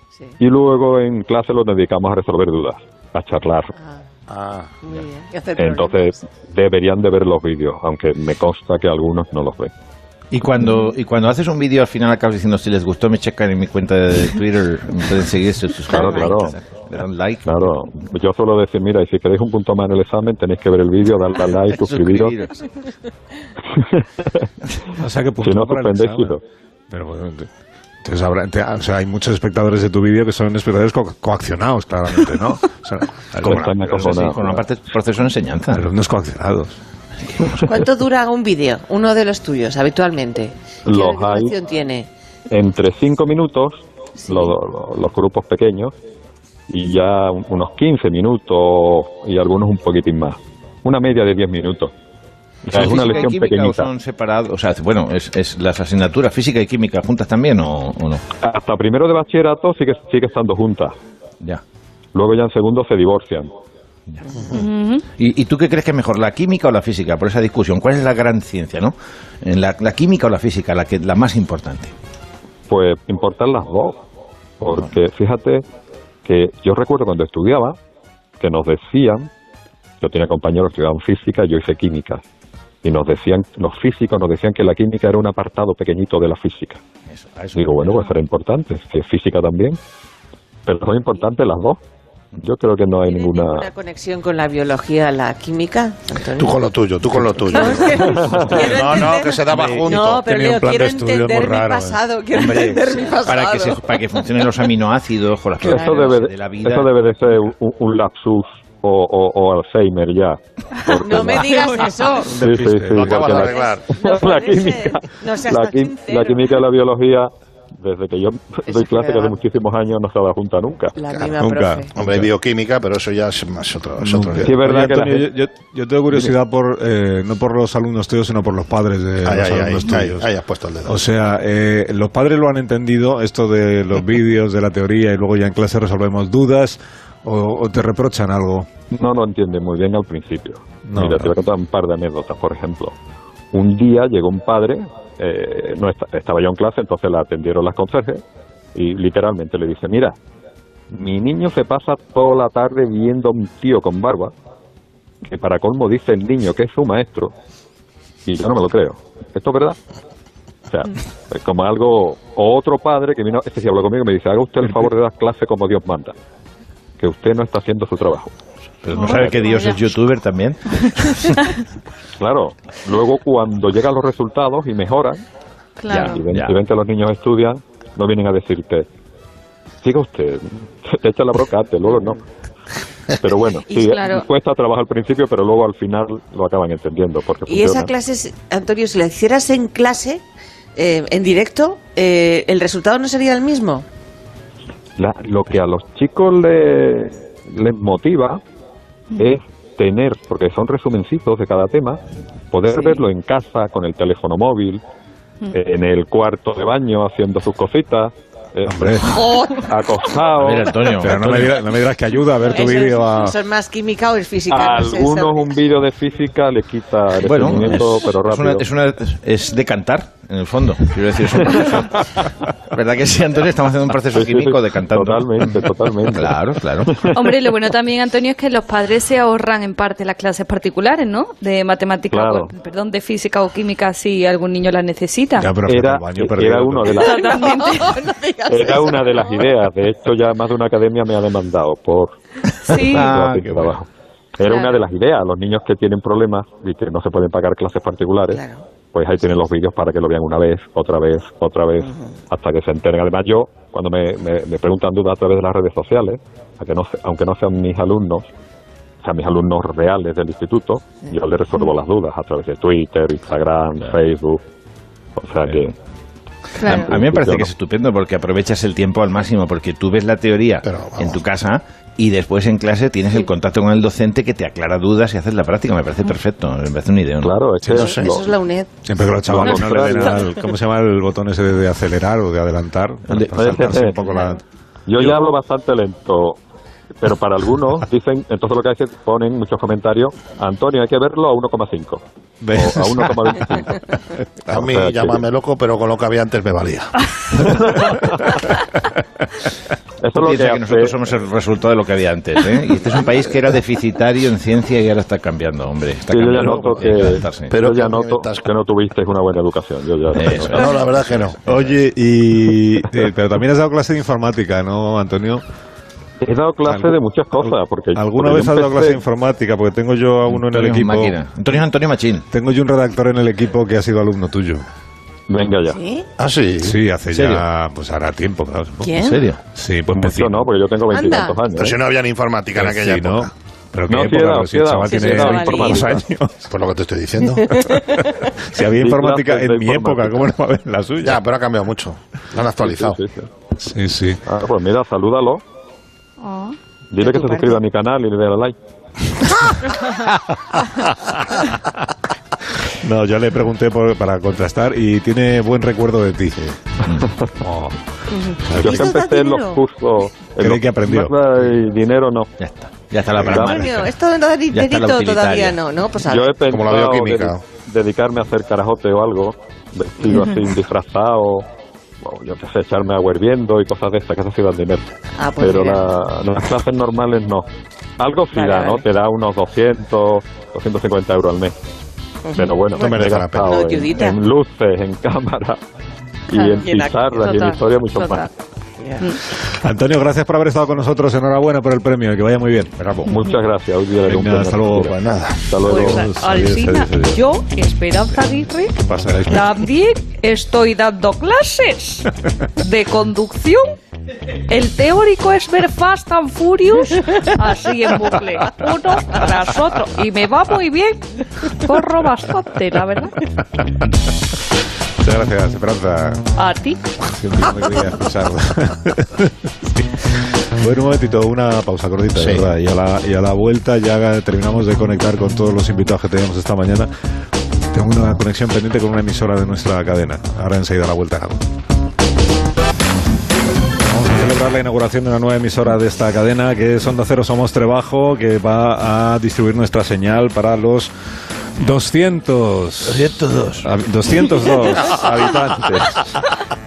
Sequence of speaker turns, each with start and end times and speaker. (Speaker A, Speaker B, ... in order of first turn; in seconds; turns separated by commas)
Speaker A: 0.4-3.7, Speaker B: 3.8-4.0, Speaker C: 4.3-4.7, Speaker B: 4.8-6.2, Speaker A: 5.6-9.7, Speaker D: 10.3-17.5, Speaker A: 15.9-16.6, Speaker A: 17.4-22.3, Speaker D: 21.7-22.7, Speaker A: 23.7-24.3, Speaker E: 24.9-26.4, Speaker A: 25.4-26.4, Speaker E: 26.9-27.5, Speaker E: 28.0-34.4, Speaker D: 33.3-35.9, Speaker A: 33.4-34.5, Speaker E: 35.7-36.8, Speaker D: 37.2-37.7, Speaker B: 37.6-42.1, Speaker A: 40.9-41.5, Speaker A: 42.5-45.9, Speaker B: 44.2-44.6, Speaker A: 46.7-51.9, Speaker D: 52.6-58.2, Speaker A: 52.7-53.9, Speaker A: 58.4-60.9, Speaker A: 62.1-63.5, Speaker D: 65.2-71.9, Speaker A: 72.7-74.0, Speaker A: 74.6-75.6, Speaker A: 76.2-77.8, Speaker A: 78.4-79.3, Speaker A: 80.0-82.2, Speaker A: 82.8-86.8, Speaker D: 87.1-88.1, Speaker A: 87.5-89.8, Speaker A: 90.7-91.8, Speaker A: 92.4-93.7, Speaker B: 93.0-96.6, Speaker C: 96.4-100.2, Speaker B: 97.5-103.8, Speaker E: 99.5-102.0, Speaker D: 102.3-106.9, Speaker A: 105.6-111.6, Speaker B: 105.7-106.1, Speaker B: 110.9-112.3, Speaker F: 111.4-112.2, Speaker E: 112.3-113.5, Speaker A: 112.3-121.0, Speaker C: 112.8-114.0, Speaker B: 113.3-116.6, Speaker B: 118.6-119.4, Speaker B: 121.0-121.9, Speaker E: 121.4-122.3, Speaker C: 121.9-124.6, Speaker E: 124.0-130.3, Speaker A: 124.4-125.3, Speaker C: 129.2-131.0, Speaker E: 130.8-138.7, Speaker A: 138.9-142.9, Speaker E: 140.9-141.3, Speaker A: 143.5-148.2, Speaker A: 148.7-150.1, Speaker A: 150.9-154.3, Speaker A: 155.2-157.3, Speaker A: 158.2-159.8, Speaker A: 160.7-166.1, Speaker A: 167.0-168.3, Speaker D: 168.8-171.4, Speaker F: 168.9-169.8, Speaker A: 172.2-175.2, Speaker D: 175.9-176.5, Speaker A: 175.9-178.9, Speaker A: 179.8-182.2, Speaker A: 183.2-187.9, Speaker B: 183.7-184.0, Speaker B: 187.4-190.2, Speaker B: 190.8-193.9, Speaker A: 195.0-198.4, Speaker A: 199.2-202.0, Speaker A: 202.5-204.8, Speaker A: 205.5-210.7, Speaker E: 208.7-209.1, Speaker B: 209.1-210.2, Speaker D: 210.3-211.6, Speaker E: 211.0-213.4, Speaker B: 212.4-215.5, Speaker A: 214.5-218.7, Speaker D: 217.2-222.1, Speaker D: 222.7-227.0, Speaker A: 224.1-227.3, Speaker F: 227.1-235.4, Speaker A: 232.1-232.5, Speaker E: 235.4-237.1, Speaker A: 235.6-237.1, Speaker F: 237.0-238.0, Speaker B: 237.1-239.6, Speaker A: 238.5-242.1, Speaker D: 242.6-243.7, Speaker F: 242.7-243.1, Speaker A: 243.0-243.9, Speaker A: 244.4-248.4, Speaker B: 244.4-244.8, Speaker B: 248.3-248.6, Speaker A: 248.9-258.3, Speaker B: 251.8-252.2, Speaker A: 259.0-264.4, Speaker A: 265.2-265.7, Speaker A: 266.6-267.5, Speaker D: 266.6-277.4, Speaker C: 270.6-271.2, Speaker A: 277.2-278.2, Speaker B: 277.7-278.7, Speaker C: 277.7-278.2, Speaker E: 278.9-284.4, Speaker A: 279.3-280.2, Speaker D: 283.1-283.9, Speaker A: 283.4-284.0, Speaker A: 284.9-286.4, Speaker A: 287.0-293.8, Speaker E: 292.4-293.6, Speaker C: 294.5-296.9, Speaker A: 294.6-295.1, Speaker A: 297.5-298.3, Speaker E: 297.6-298.3, Speaker A: 300.0-300.9, Speaker D: 300.1-307.5, Speaker A: 306.1-310.6, Speaker C: 307.4-308.5, Speaker D: 310.1-311.7, Speaker C: 310.5-311.4, Speaker E: 311.4-315.4, Speaker A: 316.2-319.0, Speaker E: 316.6-321.2, Speaker D: 320.3-322.2, Speaker E: 322.3-324.6, Speaker A: 325.3-325.8, Speaker B: 325.6-326.1, Speaker C: 326.2-326.8, Speaker E: 326.6-328.9, Speaker D: 327.1-327.4, Speaker B: 328.8-329.3, Speaker D: 329.0-329.4, Speaker E: 329.6-330.5, Speaker A: 329.9-331.8, Speaker B: 330.9-331.4, Speaker C: 331.5-333.3, Speaker E: 332.6-336.5, Speaker A: 333.9-336.0, Speaker B: 334.9-336.0, Speaker D: 335.0-335.3, Speaker C: 336.5-337.5, Speaker E: 337.5-341.2, Speaker A: 338.6-340.4, Speaker C: 341.0-343.0, Speaker A: 342.6-343.3, Speaker E: 343.6-344.2, Speaker A: 344.2-345.4, Speaker F: 346.2-346.5, Speaker A: 346.9-348.6, Speaker B: 347.0-347.6, Speaker E: 352.8-356.4, Speaker E: 357.4-357.7, Speaker B: 358.1-359.6, Speaker E: 358.5-358.9, Speaker A: 358.5-362.3, Speaker E: 360.4-361.2, Speaker D: 362.4-363.8, Speaker B: 363.3-366.4, Speaker D: 364.5-365.6, Speaker A: 366.1-371.4, Speaker C: 366.5-367.4, Speaker A: 372.0-377.4, Speaker B: 375.2-375.9, Speaker A: 378.0-381.5, Speaker B: 378.3-378.9, Speaker B: 382.3-384.2, Speaker A: 382.3-385.6, Speaker C: 382.7-383.7, Speaker A: 386.3-388.2, Speaker B: 386.3-387.4, Speaker F: 387.1-388.3, Speaker E: 389.4-392.8, Speaker D: 392.8-393.1, Speaker A: 393.1-394.9, Speaker E: 394.0-394.9, Speaker C: 394.8-395.4, Speaker A: 395.5-396.1, Speaker E: 395.5-397.2, Speaker F: 395.6-402.1, Speaker E: 398.9-399.5, Speaker F: 402.6-403.8, Speaker F: 404.5-413.1, Speaker E: 415.0-416.2, Speaker F: 416.4-416.8, Speaker E: 417.0-419.8, Speaker E: 420.6-426.9, Speaker C: 422.1-422.4, Speaker E: 427.7-431.4, Speaker E: 433.9-440.9, Speaker E: 441.6-446.2, Speaker D: 442.8-443.7